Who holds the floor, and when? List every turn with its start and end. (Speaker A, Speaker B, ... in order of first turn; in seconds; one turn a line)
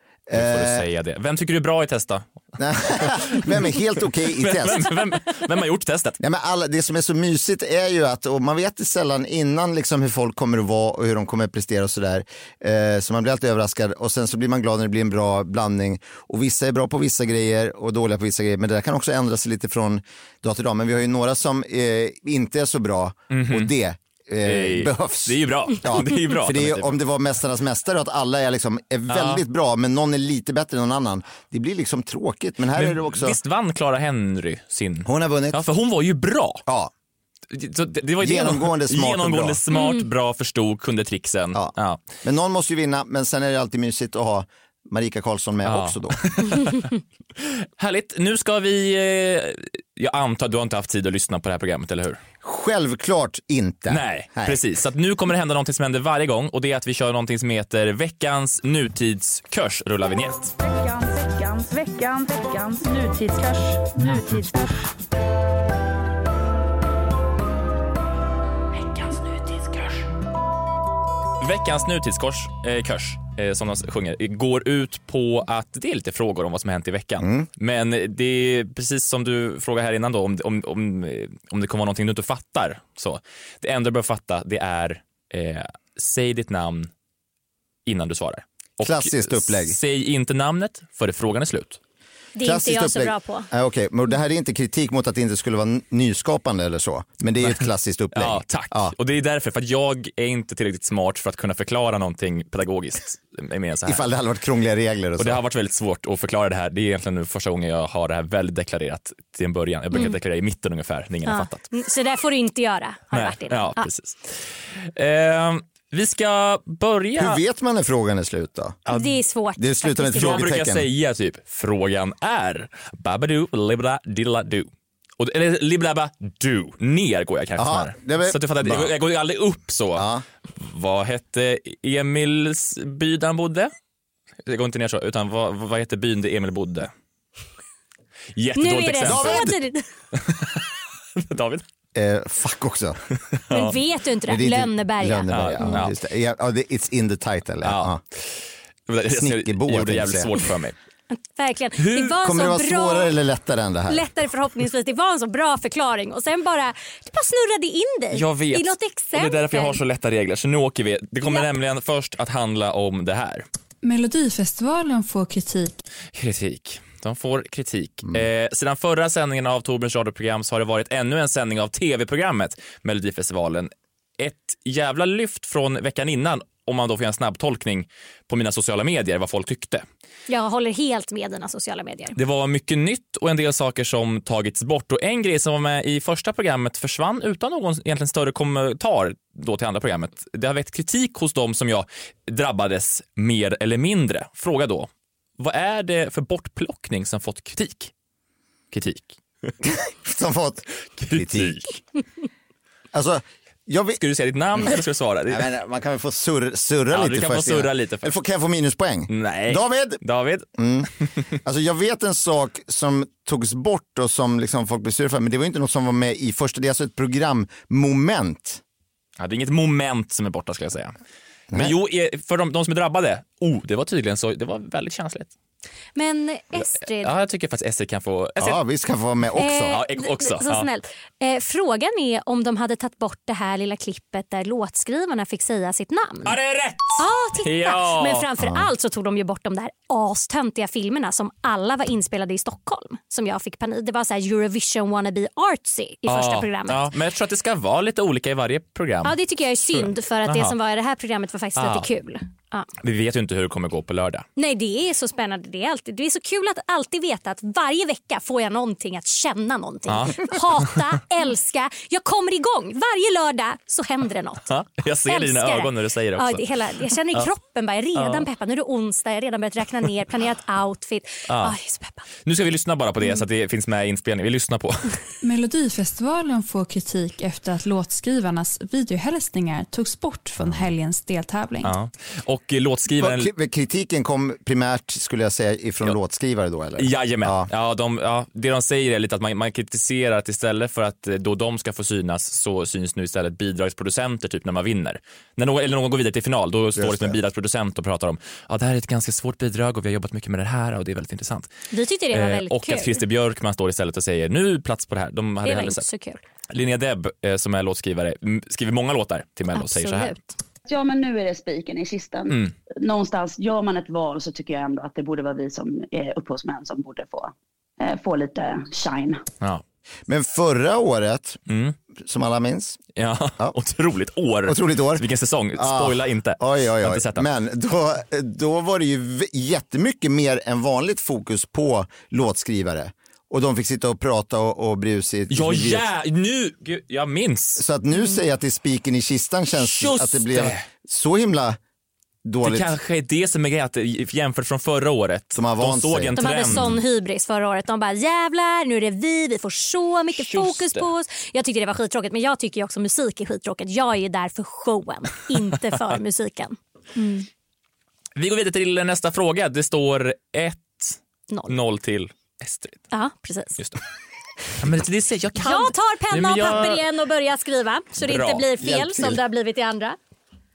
Speaker A: 0.3-0.8
Speaker B: 0.3-2.3
Speaker A: 2.6-5.0
Speaker B: 2.9-3.8
Speaker B: 4.4-6.2
Speaker A: 6.2-33.4
Speaker B: 23.3-23.7
Speaker B: 24.4-27.0
Speaker B: 29.1-29.4
Speaker B: 32.8-36.6
Speaker A: 35.0-35.6
Speaker B: 37.5-42.0
Speaker A: 38.2-39.6
Speaker C: 39.7-40.0
Speaker A: 41.5-46.4
Speaker B: 45.6-46.9
Speaker B: 47.8-52.2
Speaker A: 52.4-54.6
Speaker B: 53.9-60.5
Speaker D: 60.6-64.9
Speaker D: 68.9-70.0
Speaker B: 71.4-86.9
Speaker A: 77.2-77.5
Speaker B: 87.8-91.8
Speaker A: 88.8-89.8
Speaker C: 92.3-93.5
Speaker A: 92.4-98.9
Speaker B: 97.4-104.1
Speaker A: 103.9-105.4
Speaker B: 105.2-111.6
Speaker C: 111.3-113.9
Speaker B: 113.1-117.4
Speaker A: 117.2-118.8
Speaker C: 118.9-120.5
Speaker A: 119.6-120.9
Speaker B: 120.1-133.7
Speaker A: 127.6-128.9
Speaker A: 129.9-130.2
Speaker B: 134.4-136.9
Speaker B: 138.3-139.5
Speaker C: 138.6-139.8
Speaker A: 139.0-139.6
Speaker B: 140.1-141.6
Speaker A: 141.9-143.0
Speaker B: 143.3-143.8
Speaker C: 143.5-145.8
Speaker A: 144.3-148.0
Speaker B: 145.3-145.9
Speaker B: 147.6-150.8
Speaker A: 149.1-150.3
Speaker C: 151.1-153.1
Speaker B: 151.8-152.1
Speaker A: 152.2-154.1
Speaker C: 153.9-159.8
Speaker B: 158.1-163.4
Speaker E: 163.8-165.8
Speaker B: 166.1-179.8
Speaker C: 180.3-182.2
Speaker B: 182.2-197.9
Speaker B: 198.7-199.5
Speaker A: 199.6-201.6
Speaker B: 201.0-201.8
Speaker A: 202.9-204.0
Speaker B: 204.0-205.5
Speaker A: 205.3-210.0
Speaker B: 206.9-208.1
Speaker B: 209.1-210.5
Speaker A: 210.5-210.9
Speaker A: 211.4-218.6
Speaker B: 219.2-220.9
Speaker B: 221.5-225.3
Speaker C: 225.9-227.1
Speaker B: 226.7-228.6
Speaker A: 228.4-229.8
Speaker C: 229.4-236.3
Speaker B: 229.7-230.7
Speaker B: 236.2-238.2
Speaker C: 237.0-246.9
Speaker A: 238.4-238.7
Speaker B: 246.1-249.1
Speaker C: 249.0-252.7
Speaker B: 249.7-250.5
Speaker B: 251.6-251.9
Speaker B: 252.8-254.2
Speaker C: 254.3-264.5
Speaker B: 259.9-260.8
Speaker B: 264.5-266.4
Speaker C: 265.1-272.0
Speaker B: 267.9-268.2
Speaker B: 271.3-271.5
Speaker B: 272.2-275.0
Speaker E: 275.2-281.7
Speaker A: 280.4-280.7
Speaker B: 281.6-283.3
Speaker A: 283.0-287.5
Speaker B: 286.8-301.5
Speaker A: 296.8-297.2
Speaker C: 301.7-303.0
Speaker B: 302.1-305.8
Speaker C: 305.4-306.2
Speaker B: 306.5-310.2
Speaker C: 309.5-310.3
Speaker F: 310.6-319.2
Speaker A: 320.1-321.4
Speaker B: 321.5-321.8
Speaker A: 322.0-322.8
Speaker B: 322.9-327.2
Speaker A: 324.4-335.9
Speaker B: 335.3-337.6
Speaker A: 337.6-341.6
Speaker B: 339.5-340.7
Speaker A: 342.2-342.7
Speaker B: 342.4-346.7
Speaker A: 345.3-346.8
Speaker C: 346.2-357.3
Speaker B: 350.1-350.9
Speaker B: 358.1-361.0
Speaker C: 361.3-361.6
Speaker B: 361.5-362.8
Speaker C: 362.9-363.6
Speaker B: 364.6-366.8
Speaker C: 365.4-370.0
Speaker B: 368.0-368.4
Speaker A: 368.6-369.2